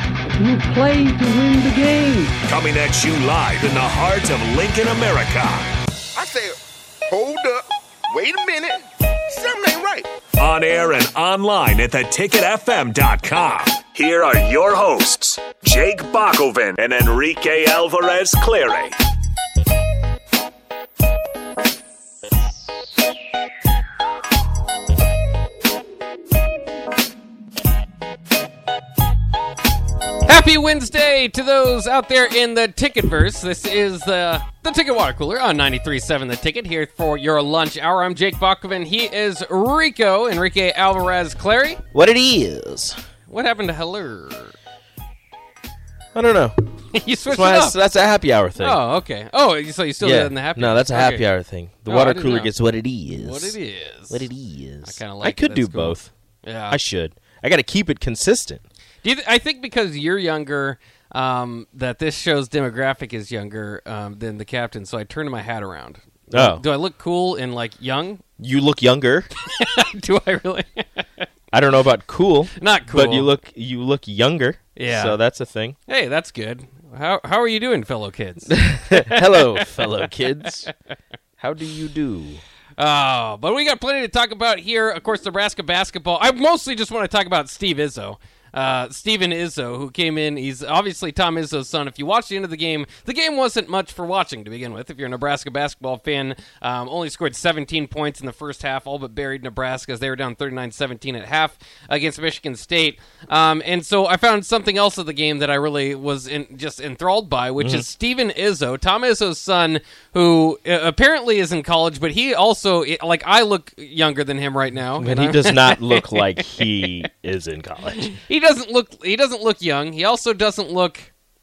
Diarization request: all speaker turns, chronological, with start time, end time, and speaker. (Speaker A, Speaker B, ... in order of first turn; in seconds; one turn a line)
Speaker A: 0.3-2.4
Speaker B: 2.4-5.7
Speaker C: 6.1-6.6
Speaker C: 7.1-10.1
Speaker B: 10.4-18.9
Speaker D: 30.2-41.8
Speaker E: 41.9-43.0
Speaker D: 43.3-44.5
Speaker E: 46.1-46.5
Speaker D: 46.9-47.8
Speaker E: 47.2-48.8
Speaker D: 48.6-51.2
Speaker E: 50.0-53.5
Speaker D: 51.9-52.5
Speaker D: 53.1-54.3
Speaker E: 54.1-56.1
Speaker D: 54.8-56.8
Speaker E: 56.7-58.6
Speaker D: 59.0-68.2
Speaker E: 66.3-66.6
Speaker E: 68.4-69.3
Speaker D: 69.4-71.0
Speaker E: 71.5-75.8
Speaker D: 72.5-73.3
Speaker D: 74.7-75.2
Speaker D: 75.9-80.7
Speaker E: 78.5-80.7
Speaker E: 81.4-82.4
Speaker D: 82.8-116.9
Speaker E: 107.6-107.8
Speaker E: 115.0-118.1
Speaker D: 118.0-121.1